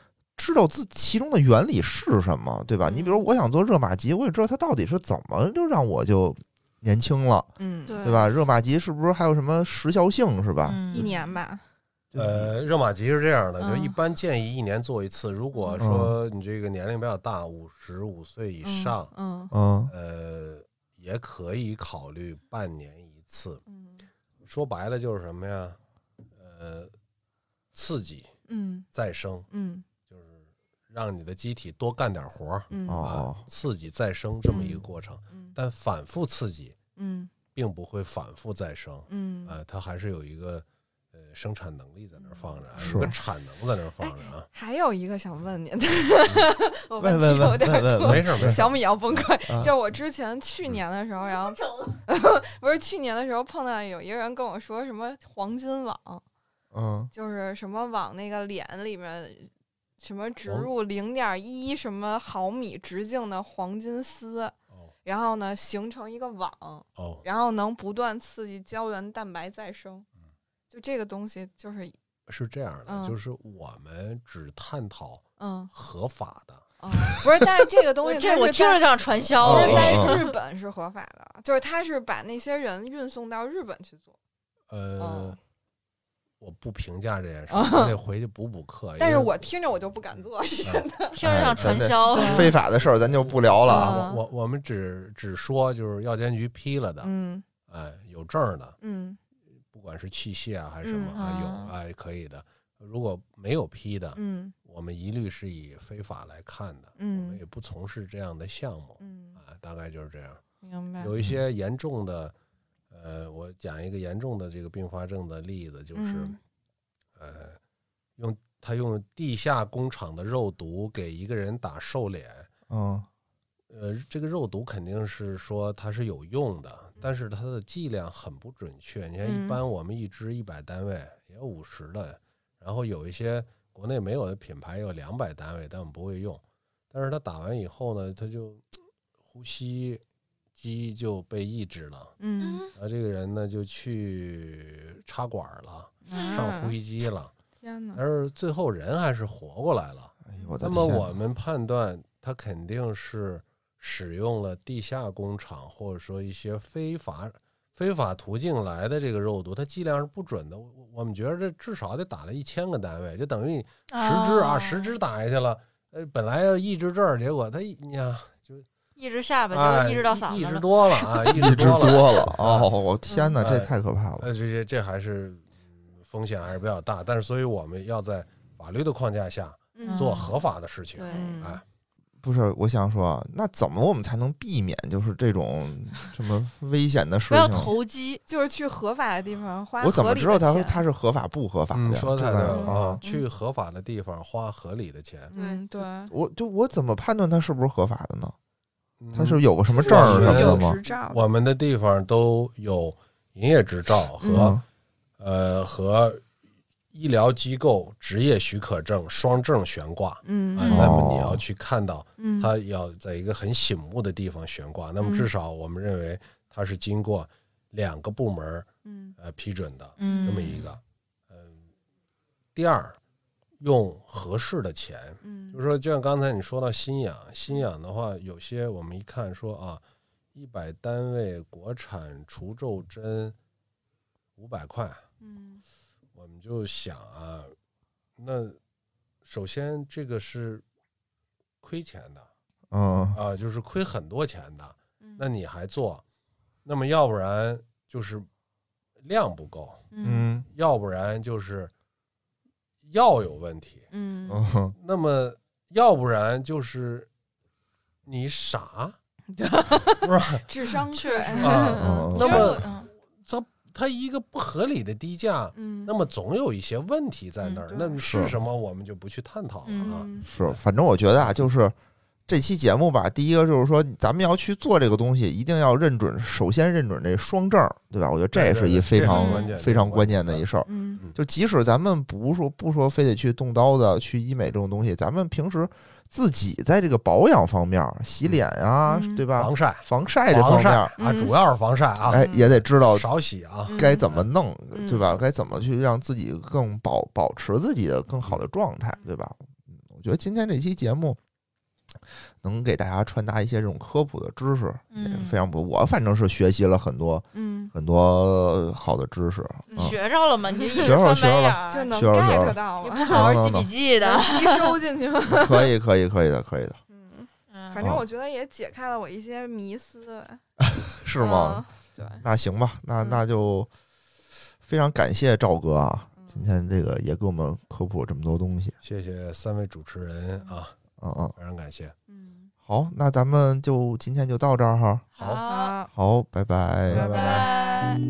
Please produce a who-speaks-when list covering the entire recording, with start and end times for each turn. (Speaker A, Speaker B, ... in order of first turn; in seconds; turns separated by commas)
Speaker A: 0.3-7.5, Speaker B: 2.9-3.1, Speaker B: 7.6-8.1, Speaker C: 7.9-8.3, Speaker A: 8.0-11.1, Speaker C: 10.6-11.1, Speaker B: 10.9-11.6, Speaker A: 12.1-12.5, Speaker D: 12.2-19.1, Speaker B: 13.6-14.0, Speaker B: 15.5-15.8, Speaker A: 15.8-16.1, Speaker B: 18.6-19.5, Speaker A: 19.5-19.9, Speaker D: 19.9-23.6, Speaker B: 23.7-24.1, Speaker D: 24.4-25.8, Speaker D: 26.4-26.9, Speaker D: 27.7-28.3, Speaker B: 28.5-28.9, Speaker D: 28.9-29.4, Speaker B: 29.5-29.8, Speaker D: 30.1-36.7, Speaker B: 32.7-33.1, Speaker A: 32.9-33.4, Speaker B: 34.5-34.8, Speaker B: 35.3-35.5, Speaker B: 37.0-37.3, Speaker D: 37.5-44.5, Speaker B: 39.1-39.5, Speaker B: 42.2-43.1, Speaker A: 42.8-43.1, Speaker B: 44.0-56.2, Speaker A: 47.0-48.6, Speaker D: 48.0-49.3, Speaker A: 49.5-49.7, Speaker A: 56.7-57.1, Speaker B: 57.1-70.0, Speaker D: 60.4-60.7, Speaker D: 67.0-67.2, Speaker B: 70.7-71.9, Speaker D: 72.3-77.2, Speaker B: 72.9-73.2, Speaker B: 75.4-75.7, Speaker B: 76.8-84.2, Speaker C: 78.0-80.3, Speaker D: 79.4-80.0, Speaker A: 79.5-80.2, Speaker D: 84.7-85.4, Speaker B: 85.0-85.4, Speaker D: 86.4-89.3, Speaker B: 87.5-88.0, Speaker B: 89.0-92.5, Speaker C: 91.1-92.5, Speaker A: 91.2-94.0, Speaker D: 92.7-97.1, Speaker B: 93.7-94.2, Speaker B: 97.0-97.4, Speaker D: 97.7-98.8, Speaker B: 98.8-99.2, Speaker D: 99.7-110.4, Speaker B: 100.8-101.2, Speaker C: 101.1-101.7, Speaker B: 104.2-104.5, Speaker B: 107.0-107.4, Speaker B: 109.0-109.4, Speaker B: 110.6-111.1, Speaker D: 111.0-112.3, Speaker D: 112.9-116.4, Speaker B: 115.9-116.4, Speaker D: 117.2-117.6, Speaker D: 118.2-122.5, Speaker A: 122.7-123.1, Speaker D: 123.7-138.6, Speaker B: 129.2-129.6, Speaker D: 139.3-140.0, Speaker D: 140.6-142.1, Speaker B: 142.2-142.7, Speaker C: 142.4-142.7, Speaker D: 142.7-147.3, Speaker B: 146.1-146.8, Speaker C: 146.1-146.4, Speaker B: 147.6-148.0, Speaker D: 147.9-168.7, Speaker A: 150.2-151.1, Speaker C: 163.9-164.9, Speaker C: 168.9-171.9, Speaker D: 169.5-172.7, Speaker A: 171.3-174.3, Speaker B: 173.1-173.4, Speaker D: 173.4-181.6, Speaker B: 179.7-180.3, Speaker C: 179.8-180.4, Speaker C: 180.9-181.4, Speaker B: 181.1-181.6, Speaker A: 182.2-187.7, Speaker C: 187.3-188.2, Speaker B: 188.3-190.8, Speaker A: 189.8-193.0, Speaker D: 191.7-195.3, Speaker B: 192.4-193.2, Speaker B: 195.3-196.1, Speaker C: 195.3-195.6, Speaker A: 196.1-198.3, Speaker D: 199.0-204.6, Speaker A: 199.1-200.8, Speaker B: 199.7-201.2, Speaker B: 204.2-204.5, Speaker A: 204.3-204.6, Speaker D: 205.2-206.2, Speaker D: 206.9-218.7, Speaker B: 210.2-210.8, Speaker C: 210.6-211.0, Speaker A: 210.7-211.4, Speaker B: 212.2-212.5, Speaker C: 215.0-215.3, Speaker B: 218.8-219.2, Speaker D: 219.2-221.6, Speaker C: 220.0-220.6, Speaker D: 222.6-223.0, Speaker D: 223.6-229.8, Speaker B: 225.2-225.6, Speaker D: 230.3-233.3, Speaker D: 234.4-235.0, Speaker B: 235.2-235.6, Speaker D: 236.1-237.6, Speaker D: 238.2-238.6, Speaker D: 239.2-240.6, Speaker D: 241.6-242.3, Speaker A: 242.7-243.2, Speaker D: 243.1-246.0, Speaker B: 245.0-245.3, Speaker D: 246.6-248.3, Speaker D: 249.0-249.8, Speaker B: 249.9-250.3, Speaker A: 250.0-250.5, Speaker D: 250.5-251.7, Speaker D: 252.8-253.8, Speaker B: 253.9-254.4, Speaker A: 254.3-254.7, Speaker D: 254.8-257.1, Speaker D: 258.1-259.0, Speaker B: 259.3-262.5, Speaker D: 260.0-260.4, Speaker C: 260.9-262.9, Speaker D: 261.4-270.6, Speaker A: 261.8-262.6, Speaker B: 265.6-265.9, Speaker B: 267.6-268.0, Speaker A: 268.0-268.4, Speaker C: 269.7-270.1, Speaker B: 269.8-270.3, Speaker A: 270.2-271.8, Speaker A: 272.3-290.9, Speaker D: 278.3-280.4, Speaker C: 279.1-279.5, Speaker B: 280.7-281.0, Speaker B: 288.9-289.2, Speaker D: 289.4-292.3, Speaker B: 291.0-291.3, Speaker B: 292.1-292.6, Speaker A: 292.1-293.1, Speaker D: 292.9-294.3, Speaker B: 293.7-294.0, Speaker A: 293.7-301.2, Speaker B: 294.7-295.2, Speaker A: 302.4-310.0, Speaker C: 304.9-305.4, Speaker B: 307.3-307.7, Speaker C: 309.7-314.8, Speaker B: 310.5-311.0, Speaker A: 310.8-313.7, Speaker B: 311.7-313.5, Speaker B: 314.0-315.7, Speaker A: 315.3-316.8, Speaker B: 316.9-320.4, Speaker C: 317.5-317.9, Speaker A: 320.6-321.6, Speaker B: 321.2-322.2, Speaker A: 322.2-323.7, Speaker B: 323.0-323.2, Speaker A: 324.6-328.8, Speaker B: 326.2-326.5, Speaker D: 328.8-330.7, Speaker A: 331.0-331.4, Speaker D: 331.4-331.9, Speaker B: 332.1-332.5, Speaker A: 332.6-335.1, Speaker D: 335.2-335.4, Speaker C: 335.2-335.8, Speaker B: 335.4-335.9, Speaker A: 335.9-337.2, Speaker D: 336.9-337.5, Speaker B: 336.9-337.9, Speaker C: 337.1-338.0